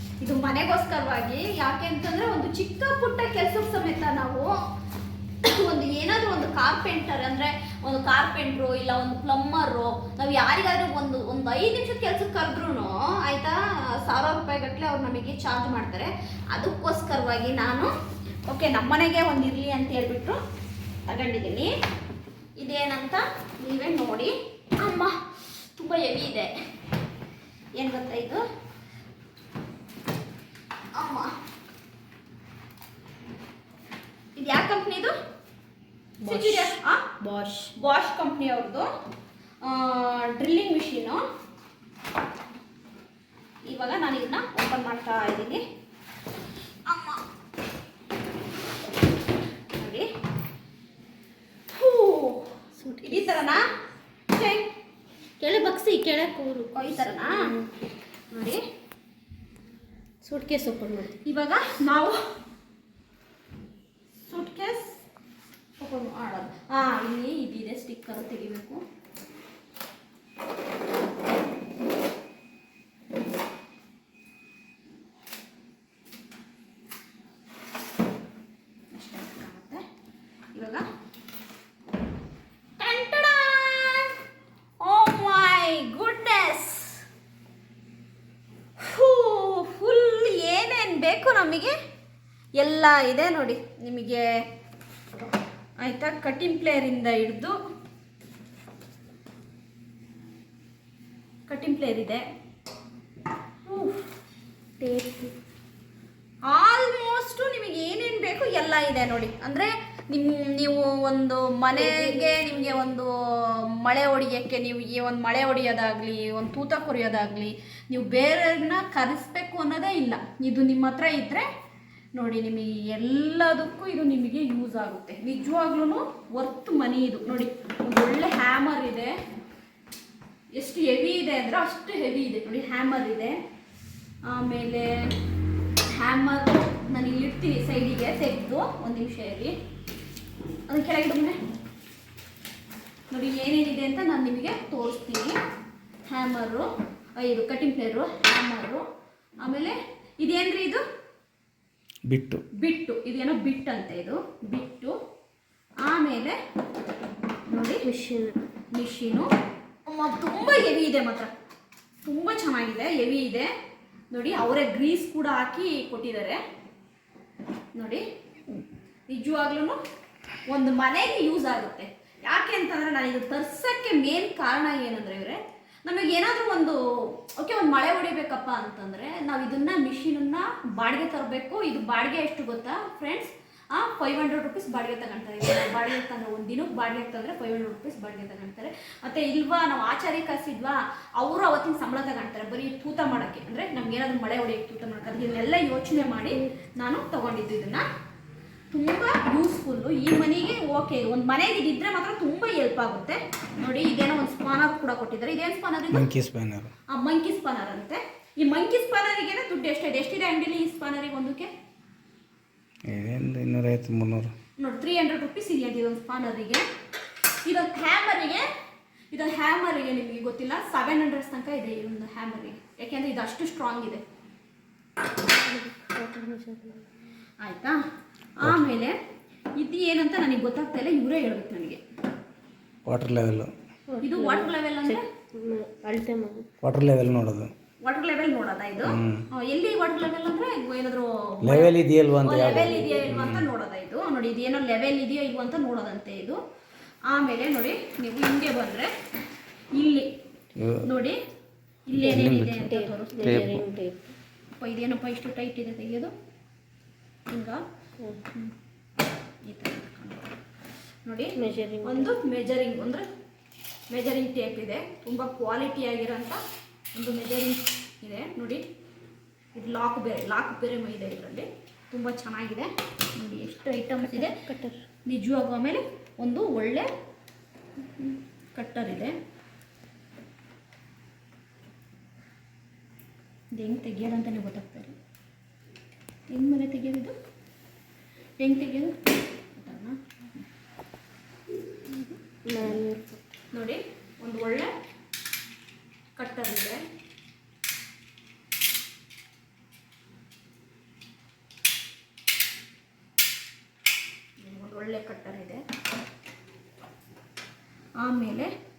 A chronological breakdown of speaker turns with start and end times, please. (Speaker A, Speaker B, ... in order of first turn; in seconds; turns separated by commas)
Speaker A: 0.2-4.6, Speaker A: 5.4-17.9, Speaker A: 18.5-20.4, Speaker A: 21.1-21.7, Speaker A: 22.6-26.5, Speaker A: 27.8-28.4, Speaker A: 30.9-31.3, Speaker A: 34.4-35.1, Speaker B: 36.2-37.7, Speaker A: 36.2-37.1, Speaker A: 37.8-38.9, Speaker A: 39.6-41.2, Speaker A: 43.7-45.6, Speaker A: 46.9-47.2, Speaker A: 49.8-50.1, Speaker A: 51.7-52.5, Speaker B: 52.8-53.3, Speaker A: 53.0-53.6, Speaker A: 54.3-54.7, Speaker B: 55.4-57.7, Speaker A: 56.7-57.5, Speaker A: 58.3-58.6, Speaker B: 60.2-61.1, Speaker A: 61.2-62.2, Speaker A: 64.3-65.0, Speaker A: 65.8-68.8, Speaker A: 78.9-79.8, Speaker A: 80.5-80.8, Speaker A: 82.8-84.1, Speaker A: 84.8-87.0, Speaker A: 88.8-91.7, Speaker A: 92.6-94.3, Speaker A: 95.8-97.6, Speaker A: 101.5-102.2, Speaker B: 103.7-104.0, Speaker B: 104.8-105.3, Speaker A: 106.5-121.5, Speaker B: 111.8-112.2, Speaker A: 122.1-129.2, Speaker A: 130.6-133.4, Speaker A: 134.2-135.1, Speaker A: 135.9-139.6, Speaker A: 140.7-141.4, Speaker A: 143.1-145.4, Speaker A: 146.1-148.8, Speaker A: 149.4-150.8, Speaker C: 152.1-152.4, Speaker A: 152.6-155.0, Speaker A: 155.8-156.4, Speaker A: 157.5-157.9, Speaker B: 157.8-158.4, Speaker A: 158.7-159.3, Speaker A: 159.9-161.3, Speaker A: 162.0-163.5, Speaker A: 164.1-166.4, Speaker A: 167.7-168.0, Speaker A: 169.1-169.8, Speaker A: 170.5-197.8, Speaker B: 196.2-196.5, Speaker A: 198.7-206.1, Speaker C: 205.9-206.7, Speaker A: 206.9-211.5, Speaker C: 212.9-214.3, Speaker A: 214.6-216.7, Speaker A: 217.4-218.5, Speaker A: 219.1-224.0, Speaker B: 225.3-226.9, Speaker A: 227.4-227.8, Speaker A: 228.4-229.0, Speaker A: 229.6-231.8, Speaker C: 232.9-233.5, Speaker B: 233.9-236.5, Speaker A: 234.0-235.0, Speaker C: 236.6-237.5, Speaker A: 237.8-246.4, Speaker C: 238.9-239.3, Speaker C: 241.4-243.5, Speaker A: 247.1-248.9, Speaker A: 249.7-250.1, Speaker C: 250.6-250.9, Speaker A: 250.8-251.2, Speaker A: 251.9-253.6, Speaker B: 252.0-254.1, Speaker C: 252.0-253.7, Speaker A: 254.5-256.1, Speaker A: 257.3-257.6, Speaker A: 259.4-260.3, Speaker A: 261.1-263.1, Speaker B: 261.4-262.1, Speaker A: 263.9-266.4, Speaker A: 266.9-268.6, Speaker A: 269.6-274.4, Speaker B: 274.1-274.8, Speaker A: 275.1-276.9, Speaker A: 277.8-279.2, Speaker A: 283.6-284.9, Speaker A: 286.3-287.1, Speaker A: 288.4-289.0, Speaker A: 289.5-290.0, Speaker A: 291.9-292.8, Speaker B: 292.5-293.2, Speaker A: 293.5-294.7, Speaker A: 296.2-296.8, Speaker A: 304.4-305.6, Speaker A: 308.0-308.5